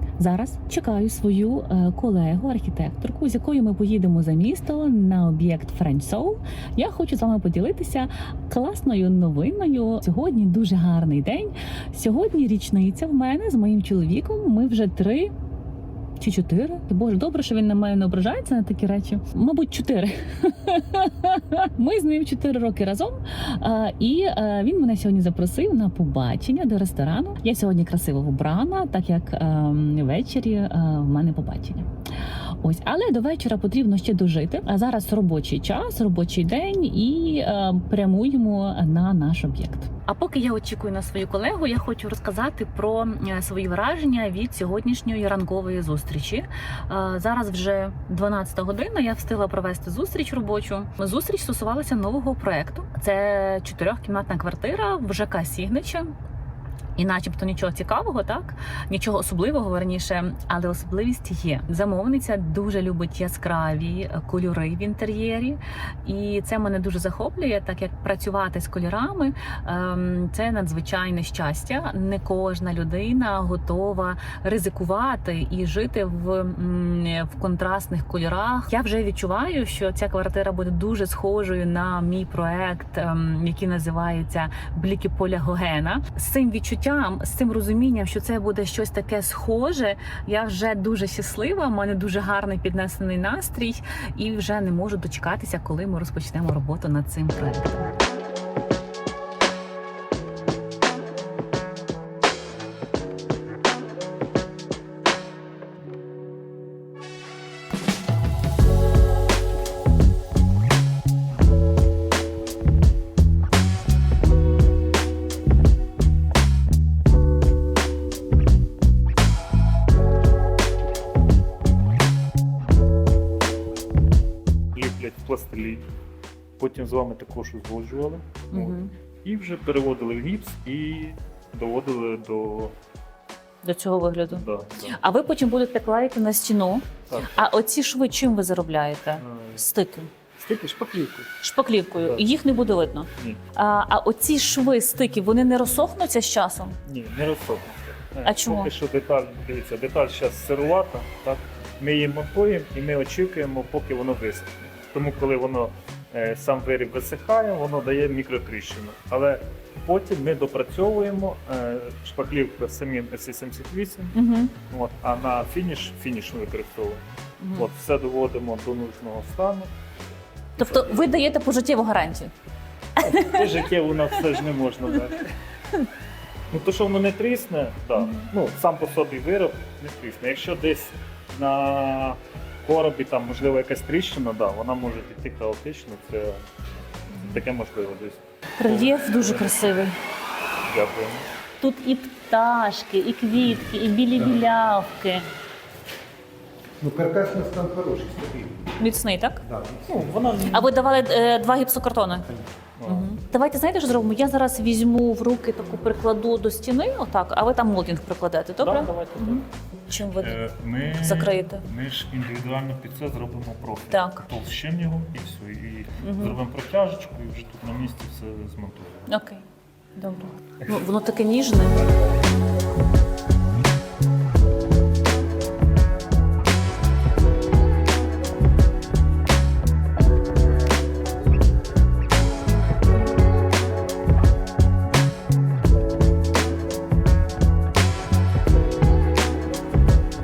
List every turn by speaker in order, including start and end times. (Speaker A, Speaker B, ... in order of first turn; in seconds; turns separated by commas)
Speaker A: 0.2-15.3, Speaker A: 16.2-31.9, Speaker A: 32.6-56.1, Speaker A: 57.0-97.9, Speaker B: 124.7-125.8, Speaker B: 126.6-132.7, Speaker A: 128.5-128.9, Speaker A: 133.6-140.1, Speaker B: 134.3-135.0, Speaker B: 137.1-137.5, Speaker B: 139.2-139.7, Speaker B: 140.4-141.3, Speaker A: 141.4-146.8, Speaker B: 143.2-143.4, Speaker B: 146.9-169.7, Speaker A: 148.2-148.7, Speaker A: 164.1-164.5, Speaker A: 167.4-167.7, Speaker B: 170.6-171.1, Speaker A: 170.6-172.3, Speaker A: 173.0-173.5, Speaker B: 173.0-175.4, Speaker B: 176.5-186.4, Speaker A: 177.9-178.3, Speaker A: 187.1-187.4, Speaker B: 187.1-189.8, Speaker A: 188.6-189.9, Speaker B: 190.7-191.3, Speaker A: 191.6-195.3, Speaker C: 194.2-194.4, Speaker C: 196.8-198.8, Speaker A: 198.8-199.4, Speaker C: 199.4-200.5, Speaker B: 199.9-200.7, Speaker A: 200.5-202.3, Speaker B: 202.8-203.2, Speaker A: 202.8-210.4, Speaker B: 208.6-209.4, Speaker B: 210.2-219.1, Speaker A: 210.9-211.7, Speaker A: 213.9-214.3, Speaker A: 216.0-216.4, Speaker A: 219.1-219.4, Speaker A: 220.0-221.8